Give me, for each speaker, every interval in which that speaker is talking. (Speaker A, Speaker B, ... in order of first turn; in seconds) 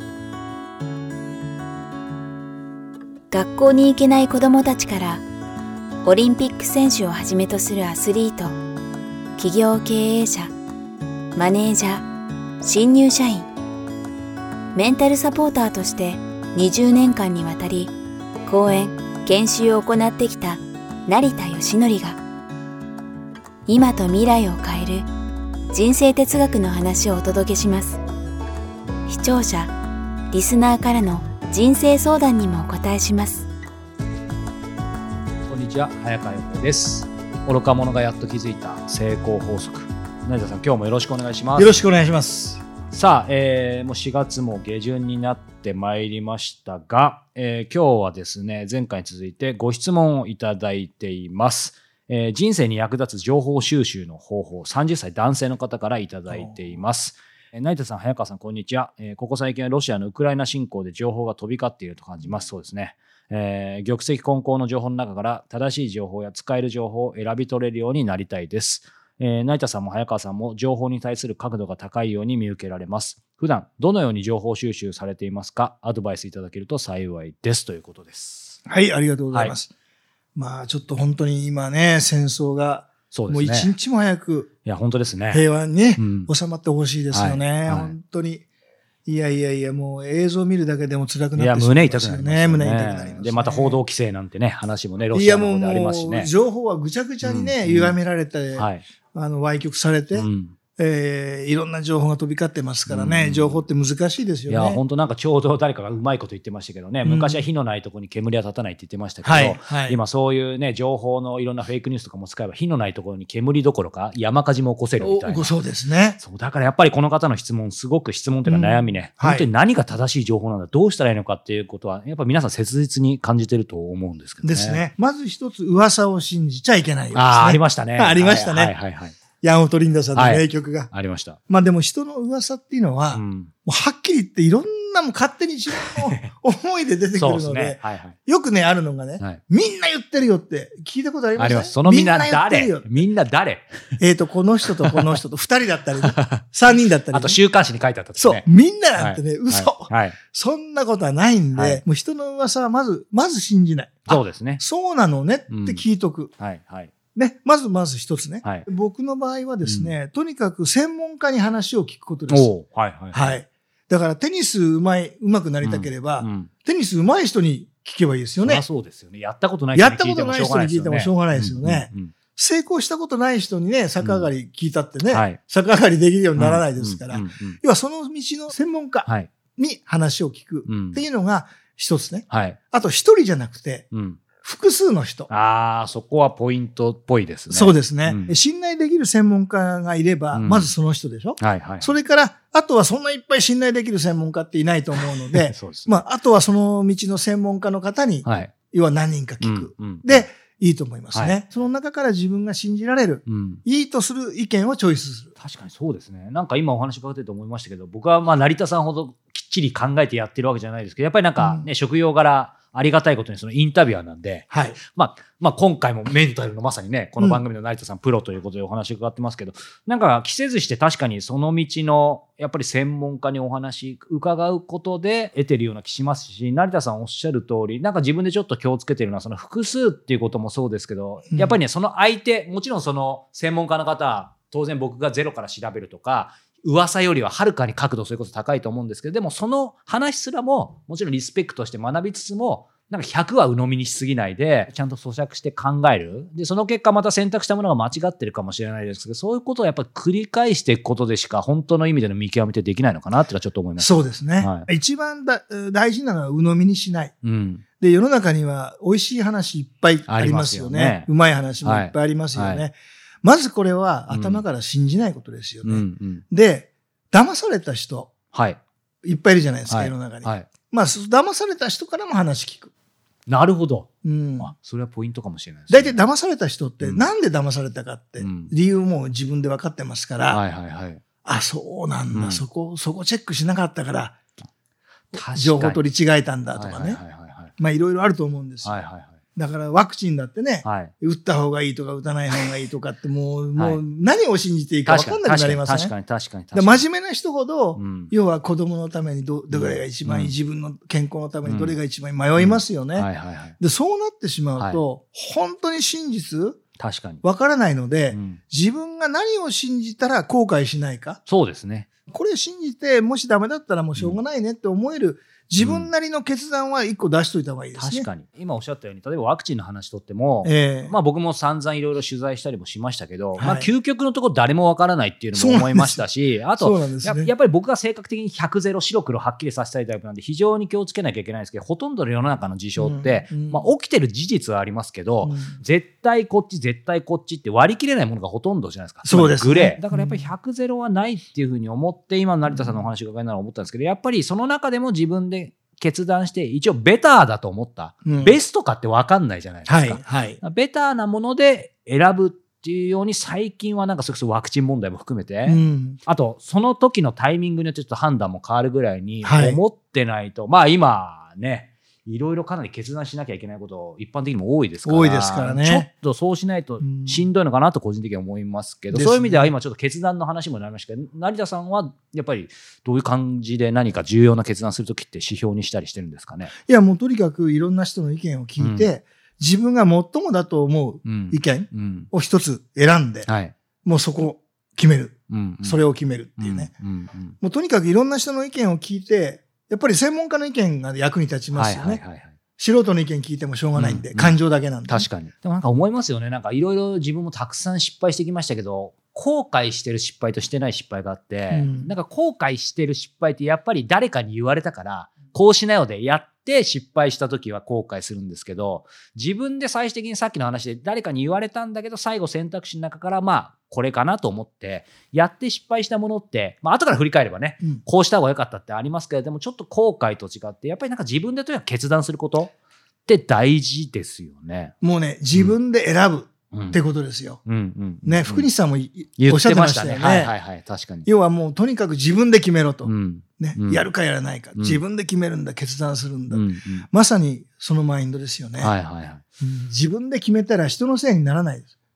Speaker A: 3.3-5.2, 6.0-8.5, 9.4-10.5, 11.3-12.1, 12.6-13.5, 14.7-17.9, 18.4-22.2, 23.6-25.1, 25.7-28.0, 29.1-29.7, 30.3-33.5
Speaker B: 35.5-41.8, 42.9-78.6, 83.1-83.7, 84.6-85.4, 86.0-86.3, 87.1-87.9, 91.3-96.3, 97.2-98.0, 98.5-98.8, 100.1-100.5, 102.9-103.6, 104.5-115.5, 116.2-124.8, 127.1-129.2, 130.2-131.4, 133.1-133.5, 135.8-136.2, 137.2-138.2, 141.4-144.0, 144.8-145.2, 146.0-146.4, 147.1-148.4, 149.0-150.2, 151.5-151.8, 154.1-154.6, 155.5-155.8, 156.4-156.9, 159.6-159.9, 162.3-163.4, 165.6-166.5, 168.4-172.1, 174.0-174.3, 175.1-175.4, 176.3-177.6, 179.1-179.3, 180.7-181.0, 182.3-182.6, 183.9-184.2, 185.3-188.3, 190.3-190.7, 191.4-191.9, 195.0-196.0, 198.2-198.5, 199.4-200.2, 203.2-203.6, 205.4-254.7, 257.2-257.6, 260.1-261.1, 261.6-262.6, 264.1-264.4, 265.6-266.2, 268.3-268.6, 269.7-270.5, 273.3-276.0, 278.2-278.5, 280.2-281.0, 282.1-282.4, 285.1-285.8, 286.5-287.5, 288.6-289.2, 290.6-290.9, 294.9-296.9, 297.8-298.1, 299.5-300.3, 301.4-301.8, 302.4-303.6, 306.8-307.2, 308.1-308.4, 311.2-311.9, 315.6-315.9, 317.8-376.5, 378.6-378.9, 381.0-382.1, 383.2-383.5, 385.3-385.8, 386.4-387.4, 391.5-392.3, 393.8-394.4, 394.9-422.5, 423.1-424.7, 426.5-426.8, 427.4-428.5, 429.2-431.1, 432.8-433.9, 436.3-436.9, 438.6-439.2
Speaker C: 41.5-42.6, 56.3-56.6, 78.7-79.7, 80.3-84.5, 85.3-88.5, 89.0-93.8, 95.1-104.8, 107.0-107.4, 109.2-110.0, 115.0-116.2, 118.4-119.5, 124.4-128.7, 129.4-130.9, 131.5-143.0, 144.0-147.4, 148.2-156.3, 157.1-162.5, 163.1-168.6, 169.7-185.3, 187.5-205.3, 211.4-211.7, 214.5-214.8, 253.8-257.1, 257.8-268.1, 269.0-272.7, 274.0-274.5, 275.7-280.4, 281.2-284.2, 285.2-287.0, 287.6-288.8, 289.4-295.9, 296.5-303.1, 303.6-306.6, 307.2-311.2, 312.1-318.1, 320.4-320.9, 323.4-323.7, 325.3-326.0, 326.6-327.3, 332.8-333.7, 335.2-335.6, 339.0-340.2, 342.5-342.9, 348.0-348.4, 349.7-350.4, 355.4-356.0, 359.2-359.6, 364.8-365.9, 366.8-367.2, 368.9-369.5, 376.6-383.3, 383.8-386.7, 387.4-392.0, 392.6-395.1, 401.5-401.9, 424.8-427.4, 428.0-430.3, 431.0-438.7, 439.4-441.7